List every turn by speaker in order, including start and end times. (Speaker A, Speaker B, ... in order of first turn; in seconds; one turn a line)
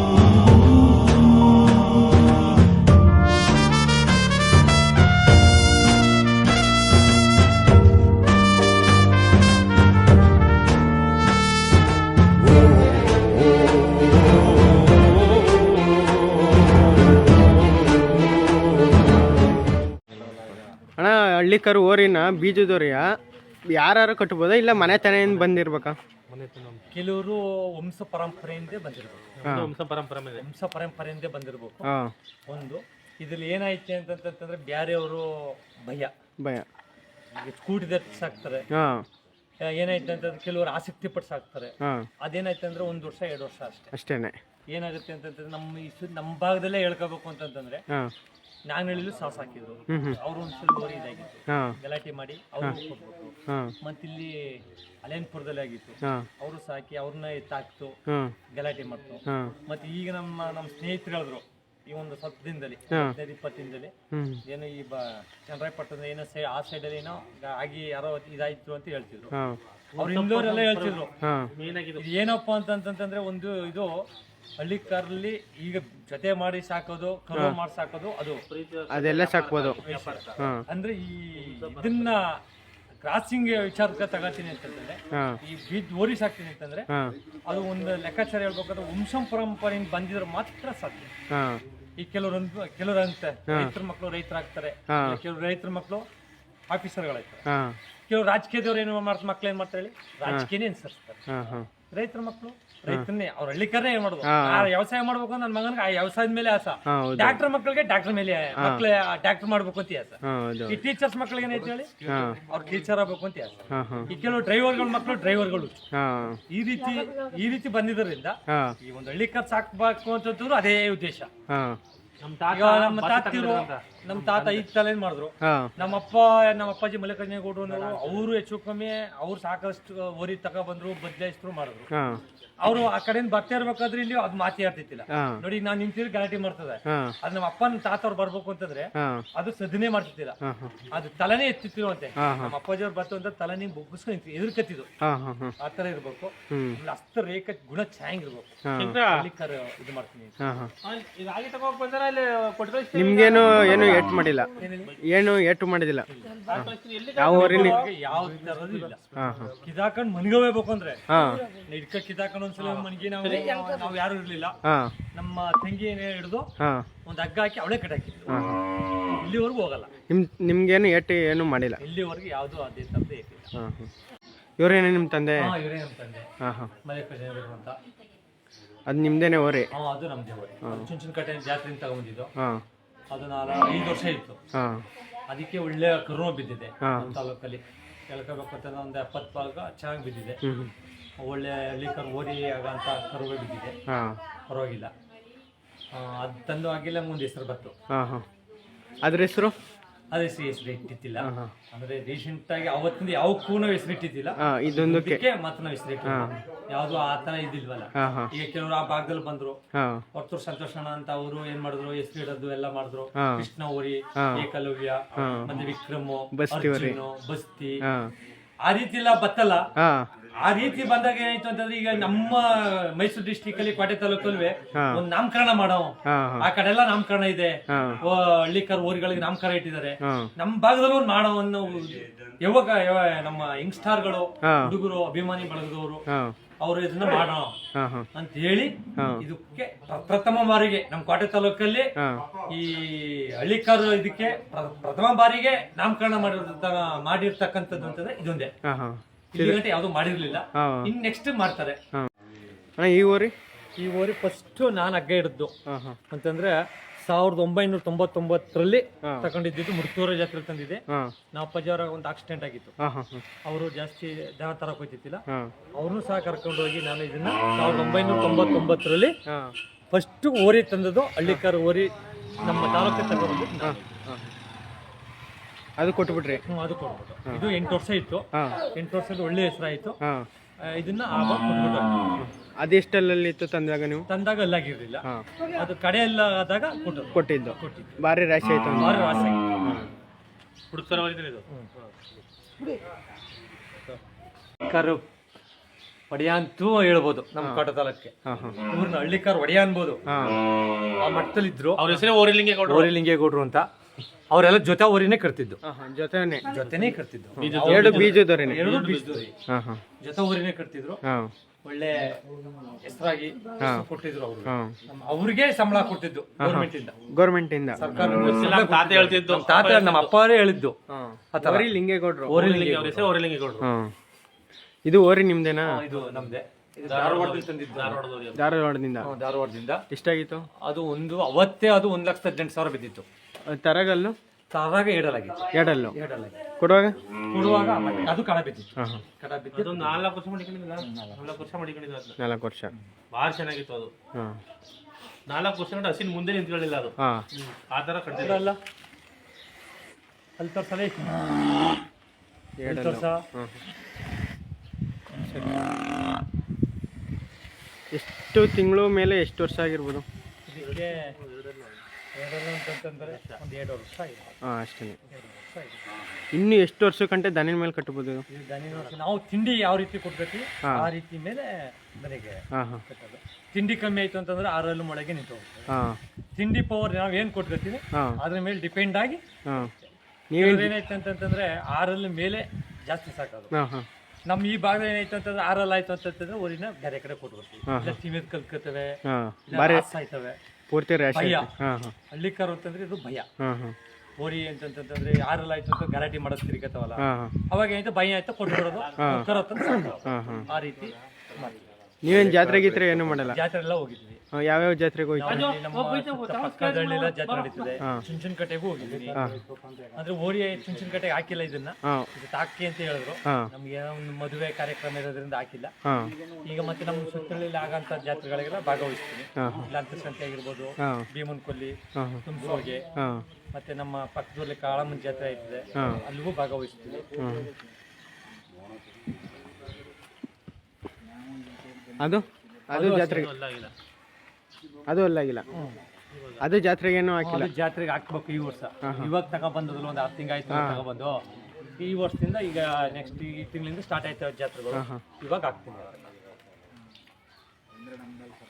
Speaker A: 21.0-23.1
Speaker A: 23.7-26.0
Speaker B: 24.8-25.5
Speaker B: 26.3-26.9
Speaker C: 26.9-29.6
Speaker B: 29.4-30.4
Speaker A: 29.4-29.7
Speaker C: 30.4-31.9
Speaker A: 31.8-32.1
Speaker C: 32.5-36.1
Speaker A: 36.4-36.7
Speaker C: 37.3-38.6
Speaker A: 38.7-39.0
Speaker C: 39.6-43.9
Speaker A: 41.8-42.1
Speaker A: 43.9-44.4
Speaker C: 44.7-47.8
Speaker C: 48.7-58.0
Speaker A: 49.9-50.2
Speaker A: 51.5-51.8
Speaker A: 53.5-53.7
Speaker A: 58.1-58.3
Speaker C: 58.5-63.9
Speaker A: 59.3-59.5
Speaker A: 62.9-63.1
Speaker A: 64.1-64.4
Speaker C: 64.5-69.3
Speaker A: 69.3-69.6
Speaker B: 69.9-72.1
Speaker C: 70.0-71.1
Speaker A: 71.2-71.5
Speaker C: 72.0-73.9
Speaker C: 74.6-78.4
Speaker B: 78.5-80.5
Speaker A: 78.9-79.8
Speaker C: 79.8-82.4
Speaker A: 80.4-80.6
Speaker B: 81.3-82.2
Speaker C: 83.0-86.9
Speaker A: 85.1-85.4
Speaker C: 87.5-91.1
Speaker A: 91.3-91.6
Speaker C: 92.0-96.0
Speaker A: 93.5-93.7
Speaker A: 94.9-95.2
Speaker C: 96.7-97.4
Speaker A: 97.5-97.8
Speaker C: 98.1-101.2
Speaker A: 101.3-101.7
Speaker C: 101.9-115.8
Speaker A: 104.2-104.7
Speaker A: 106.9-107.4
Speaker A: 108.5-108.8
Speaker A: 110.2-110.8
Speaker A: 112.0-112.4
Speaker A: 113.7-114.1
Speaker A: 115.9-116.4
Speaker C: 116.5-121.3
Speaker A: 118.5-118.8
Speaker A: 121.5-121.8
Speaker B: 122.2-124.7
Speaker C: 122.5-131.9
Speaker A: 125.4-125.7
Speaker B: 127.7-128.2
Speaker A: 131.9-132.2
Speaker C: 132.6-140.4
Speaker A: 135.1-135.4
Speaker A: 136.9-137.2
Speaker A: 138.9-139.2
Speaker A: 140.4-140.7
Speaker C: 140.9-144.9
Speaker A: 142.2-142.5
Speaker A: 145.0-145.5
Speaker C: 145.6-150.3
Speaker A: 146.5-146.8
Speaker A: 148.6-149.0
Speaker B: 148.8-149.3
Speaker A: 150.4-150.7
Speaker B: 150.8-154.1
Speaker A: 152.9-156.1
Speaker C: 154.6-154.9
Speaker C: 156.1-156.7
Speaker B: 156.4-159.6
Speaker A: 157.2-157.8
Speaker C: 157.3-159.0
Speaker A: 159.2-159.5
Speaker C: 159.6-164.6
Speaker A: 161.1-161.4
Speaker B: 162.6-163.9
Speaker A: 164.7-164.9
Speaker C: 165.1-166.5
Speaker A: 166.6-166.9
Speaker C: 167.1-168.6
Speaker A: 168.3-168.6
Speaker C: 169.1-169.9
Speaker A: 170.1-171.8
Speaker C: 171.8-173.5
Speaker A: 173.6-173.9
Speaker A: 174.6-175.6
Speaker C: 175.4-176.3
Speaker A: 176.4-176.7
Speaker C: 176.8-177.7
Speaker A: 178.9-179.7
Speaker C: 179.7-182.3
Speaker A: 180.6-180.9
Speaker C: 183.1-184.4
Speaker A: 184.5-184.8
Speaker C: 185.3-190.4
Speaker A: 186.8-187.2
Speaker A: 190.4-190.7
Speaker C: 191.2-193.8
Speaker A: 193.9-194.2
Speaker C: 194.5-194.9
Speaker C: 195.9-197.7
Speaker A: 197.9-198.2
Speaker A: 199.0-199.6
Speaker C: 200.1-209.6
Speaker A: 201.2-201.5
Speaker A: 204.4-205.2
Speaker A: 206.0-206.3
Speaker A: 208.0-208.3
Speaker A: 209.7-210.0
Speaker C: 210.1-217.8
Speaker A: 213.2-213.5
Speaker A: 214.2-214.5
Speaker A: 215.1-215.5
Speaker A: 216.3-217.0
Speaker A: 217.8-218.1
Speaker C: 218.6-219.7
Speaker A: 219.8-220.1
Speaker C: 220.4-236.1
Speaker A: 224.7-225.0
Speaker A: 226.1-226.5
Speaker A: 227.7-228.0
Speaker A: 230.0-230.3
Speaker A: 234.4-234.8
Speaker A: 236.1-236.3
Speaker C: 236.6-237.6
Speaker A: 237.7-238.1
Speaker C: 238.1-241.9
Speaker A: 239.0-239.2
Speaker A: 242.0-242.2
Speaker C: 242.4-248.5
Speaker A: 248.6-249.6
Speaker C: 249.3-251.8
Speaker A: 250.6-250.9
Speaker A: 252.8-253.3
Speaker C: 253.8-255.5
Speaker A: 255.7-256.0
Speaker C: 256.1-262.7
Speaker A: 259.0-259.3
Speaker A: 262.8-263.2
Speaker C: 263.4-265.2
Speaker C: 265.8-269.2
Speaker A: 269.3-269.5
Speaker C: 269.9-271.9
Speaker C: 272.4-273.8
Speaker A: 273.6-274.3
Speaker A: 275.8-276.4
Speaker C: 276.4-280.0
Speaker C: 280.6-282.0
Speaker A: 282.2-284.1
Speaker C: 284.1-288.0
Speaker A: 287.1-289.9
Speaker C: 288.8-289.4
Speaker B: 290.7-291.4
Speaker C: 294.6-295.0
Speaker C: 296.1-298.1
Speaker A: 298.2-298.6
Speaker C: 298.7-300.0
Speaker A: 300.1-300.4
Speaker C: 301.0-302.1
Speaker B: 301.8-302.9
Speaker C: 302.6-303.7
Speaker C: 304.3-305.6
Speaker A: 305.6-306.4
Speaker C: 306.4-309.3
Speaker B: 306.6-309.3
Speaker A: 307.6-308.7
Speaker A: 309.5-309.8
Speaker C: 310.0-311.0
Speaker A: 311.0-311.3
Speaker C: 311.6-312.2
Speaker C: 312.8-316.9
Speaker A: 313.6-313.9
Speaker A: 314.5-314.7
Speaker A: 316.4-317.8
Speaker C: 317.8-320.8
Speaker B: 317.9-320.1
Speaker A: 320.9-322.4
Speaker C: 321.3-321.7
Speaker C: 322.3-323.1
Speaker B: 322.3-323.7
Speaker A: 323.6-323.9
Speaker A: 324.9-325.8
Speaker C: 325.6-328.0
Speaker B: 325.9-326.3
Speaker B: 326.9-328.4
Speaker A: 328.3-329.1
Speaker C: 329.0-329.8
Speaker A: 329.9-330.4
Speaker C: 330.6-333.0
Speaker A: 333.5-334.1
Speaker C: 334.5-336.4
Speaker A: 335.5-335.9
Speaker A: 336.6-337.0
Speaker C: 337.3-340.0
Speaker A: 338.8-339.0
Speaker B: 339.5-342.1
Speaker C: 340.9-341.3
Speaker A: 342.2-342.7
Speaker B: 343.1-343.9
Speaker B: 345.3-348.4
Speaker A: 347.0-347.2
Speaker C: 348.1-348.6
Speaker C: 350.4-351.6
Speaker A: 352.6-353.6
Speaker C: 352.6-353.3
Speaker C: 355.1-355.6
Speaker A: 357.9-360.0
Speaker C: 360.5-361.2
Speaker B: 360.6-361.8
Speaker C: 362.1-364.4
Speaker B: 363.1-363.4
Speaker A: 364.4-365.0
Speaker C: 365.1-365.8
Speaker A: 366.3-368.2
Speaker C: 368.3-375.7
Speaker A: 370.6-370.9
Speaker A: 372.5-372.8
Speaker A: 375.7-376.0
Speaker C: 376.3-379.2
Speaker A: 377.9-378.2
Speaker A: 379.4-379.7
Speaker C: 379.8-383.5
Speaker A: 380.3-380.7
Speaker A: 383.5-383.9
Speaker C: 384.3-390.4
Speaker A: 387.7-388.0
Speaker A: 389.1-389.9
Speaker A: 390.7-391.9
Speaker C: 391.1-391.5
Speaker C: 392.1-393.3
Speaker A: 393.4-393.8
Speaker C: 394.2-401.6
Speaker A: 397.0-397.3
Speaker B: 398.8-399.3
Speaker A: 399.0-399.3
Speaker A: 400.0-400.5
Speaker A: 402.0-403.4
Speaker B: 402.1-403.1
Speaker C: 403.3-404.2
Speaker A: 404.3-405.5
Speaker C: 405.1-409.2
Speaker B: 405.2-407.8
Speaker B: 408.9-409.2
Speaker A: 409.1-409.4
Speaker C: 409.9-415.7
Speaker A: 415.8-416.1
Speaker C: 416.4-422.9
Speaker A: 419.4-419.7
Speaker A: 421.9-422.2
Speaker A: 422.9-423.2
Speaker C: 423.5-427.1
Speaker A: 425.8-426.0
Speaker A: 427.2-427.5
Speaker A: 432.0-433.3
Speaker B: 432.7-433.7
Speaker A: 434.9-435.4
Speaker C: 435.5-435.8
Speaker B: 436.1-436.4
Speaker A: 436.4-437.5
Speaker C: 437.2-441.2
Speaker A: 438.8-439.1
Speaker A: 440.5-440.8
Speaker C: 441.7-446.0
Speaker A: 444.7-445.0